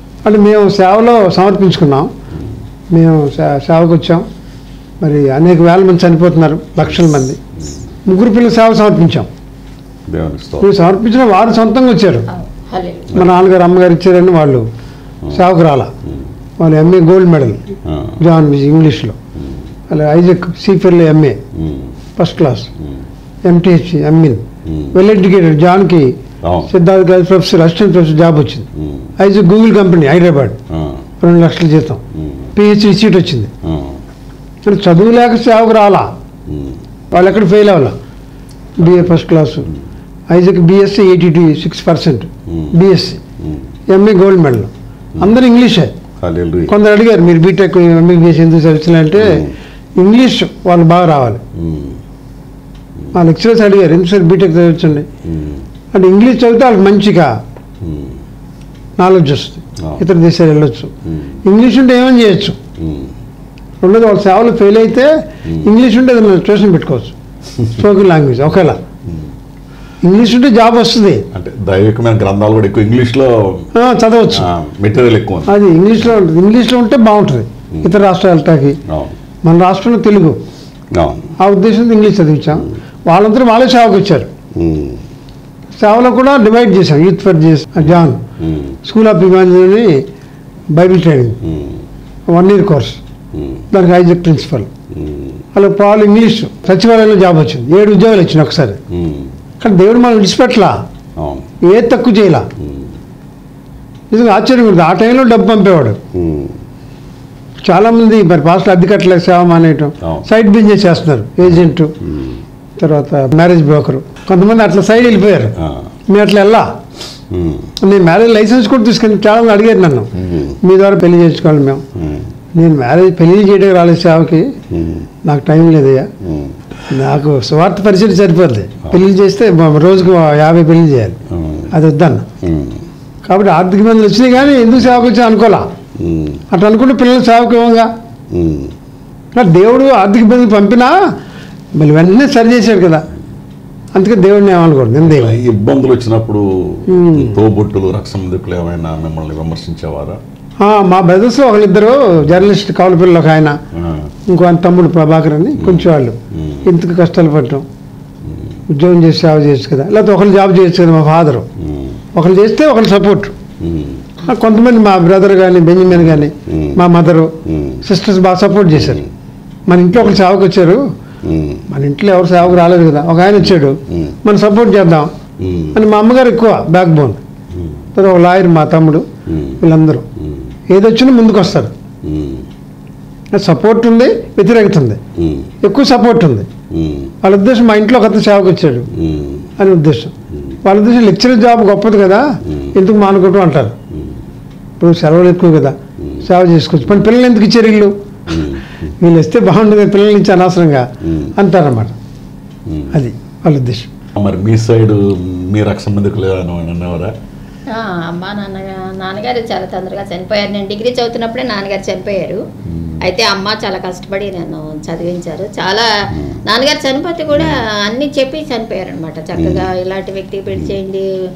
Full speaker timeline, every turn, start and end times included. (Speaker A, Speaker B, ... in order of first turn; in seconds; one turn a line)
Speaker A: 0.2-2.1
Speaker A: 2.9-4.2
Speaker A: 5.0-7.4
Speaker A: 8.1-9.3
Speaker B: 10.1-10.8
Speaker A: 10.6-12.3
Speaker C: 12.3-13.2
Speaker A: 13.1-14.7
Speaker A: 15.3-15.9
Speaker A: 16.6-19.2
Speaker B: 17.9-18.2
Speaker A: 19.9-21.4
Speaker B: 21.5-22.0
Speaker A: 22.2-22.7
Speaker A: 23.4-26.1
Speaker B: 24.6-24.9
Speaker B: 26.4-26.7
Speaker A: 26.7-30.6
Speaker B: 28.7-29.1
Speaker B: 30.7-31.0
Speaker A: 31.2-32.0
Speaker B: 32.1-32.5
Speaker A: 32.5-33.5
Speaker B: 33.6-34.0
Speaker A: 34.6-36.1
Speaker B: 36.5-36.8
Speaker A: 37.1-38.0
Speaker A: 38.8-39.7
Speaker B: 38.8-39.1
Speaker A: 40.3-43.2
Speaker B: 42.5-42.7
Speaker B: 43.4-43.7
Speaker A: 43.9-45.9
Speaker B: 46.2-46.7
Speaker A: 46.7-51.4
Speaker B: 49.1-49.5
Speaker B: 51.5-52.0
Speaker A: 53.1-55.1
Speaker B: 55.2-55.6
Speaker A: 55.9-57.4
Speaker B: 57.8-58.2
Speaker A: 59.0-60.9
Speaker B: 59.8-60.0
Speaker B: 61.1-61.4
Speaker A: 61.4-62.6
Speaker B: 62.8-63.1
Speaker A: 63.8-67.1
Speaker A: 67.7-68.8
Speaker B: 69.0-69.3
Speaker A: 70.0-71.2
Speaker B: 71.3-73.7
Speaker A: 73.7-74.5
Speaker B: 74.3-75.5
Speaker A: 75.5-78.8
Speaker B: 78.8-79.2
Speaker A: 79.4-80.4
Speaker B: 80.9-81.3
Speaker A: 81.4-84.3
Speaker B: 84.5-85.0
Speaker A: 85.8-88.2
Speaker B: 87.8-88.8
Speaker A: 88.8-90.0
Speaker A: 90.7-91.4
Speaker B: 91.4-91.8
Speaker A: 92.3-93.0
Speaker B: 93.3-93.7
Speaker A: 93.7-94.7
Speaker B: 94.9-95.4
Speaker A: 95.5-98.8
Speaker B: 98.9-99.3
Speaker A: 99.6-100.8
Speaker B: 101.2-101.5
Speaker A: 101.6-102.5
Speaker B: 102.6-103.0
Speaker A: 104.1-106.0
Speaker B: 106.1-106.6
Speaker A: 107.6-111.9
Speaker B: 112.0-112.4
Speaker A: 112.8-115.5
Speaker B: 115.6-115.9
Speaker A: 116.1-116.7
Speaker B: 117.3-117.7
Speaker A: 117.8-121.8
Speaker B: 120.2-120.6
Speaker B: 121.9-122.3
Speaker A: 122.5-124.5
Speaker B: 124.7-125.1
Speaker A: 125.2-126.1
Speaker B: 126.2-126.6
Speaker A: 126.9-131.2
Speaker B: 131.3-131.7
Speaker A: 131.7-132.3
Speaker B: 132.4-132.9
Speaker A: 133.2-135.7
Speaker B: 135.9-136.4
Speaker A: 136.5-137.9
Speaker B: 138.3-138.7
Speaker A: 139.3-141.1
Speaker A: 141.8-143.1
Speaker A: 143.9-145.4
Speaker B: 145.0-150.2
Speaker A: 146.9-147.4
Speaker A: 150.6-153.6
Speaker B: 153.7-154.1
Speaker A: 154.3-157.7
Speaker B: 155.6-156.7
Speaker B: 158.2-158.5
Speaker A: 158.7-161.5
Speaker B: 161.6-162.0
Speaker A: 162.1-163.3
Speaker B: 163.6-164.1
Speaker A: 164.2-169.0
Speaker B: 166.1-166.8
Speaker B: 167.4-167.8
Speaker B: 168.8-169.1
Speaker A: 169.7-170.8
Speaker B: 171.2-171.6
Speaker A: 171.7-175.1
Speaker B: 173.9-174.2
Speaker B: 175.4-175.8
Speaker A: 175.7-177.2
Speaker B: 177.5-177.8
Speaker A: 177.9-179.1
Speaker B: 179.2-179.6
Speaker A: 179.6-180.1
Speaker B: 180.2-180.5
Speaker A: 180.7-181.7
Speaker B: 182.0-182.5
Speaker A: 183.3-185.0
Speaker B: 185.2-185.5
Speaker A: 185.6-186.5
Speaker B: 186.7-187.1
Speaker A: 187.2-188.9
Speaker B: 188.9-189.5
Speaker A: 189.6-193.8
Speaker B: 190.3-190.6
Speaker B: 193.9-194.2
Speaker A: 194.8-197.9
Speaker B: 196.0-196.2
Speaker B: 198.3-198.9
Speaker A: 199.0-201.9
Speaker B: 201.0-201.3
Speaker B: 202.7-202.9
Speaker A: 202.9-203.9
Speaker B: 204.1-207.1
Speaker C: 207.7-212.4
Speaker B: 212.7-213.0
Speaker C: 213.0-215.9
Speaker B: 216.1-216.4
Speaker C: 216.4-221.1
Speaker B: 217.3-217.6
Speaker B: 219.4-219.7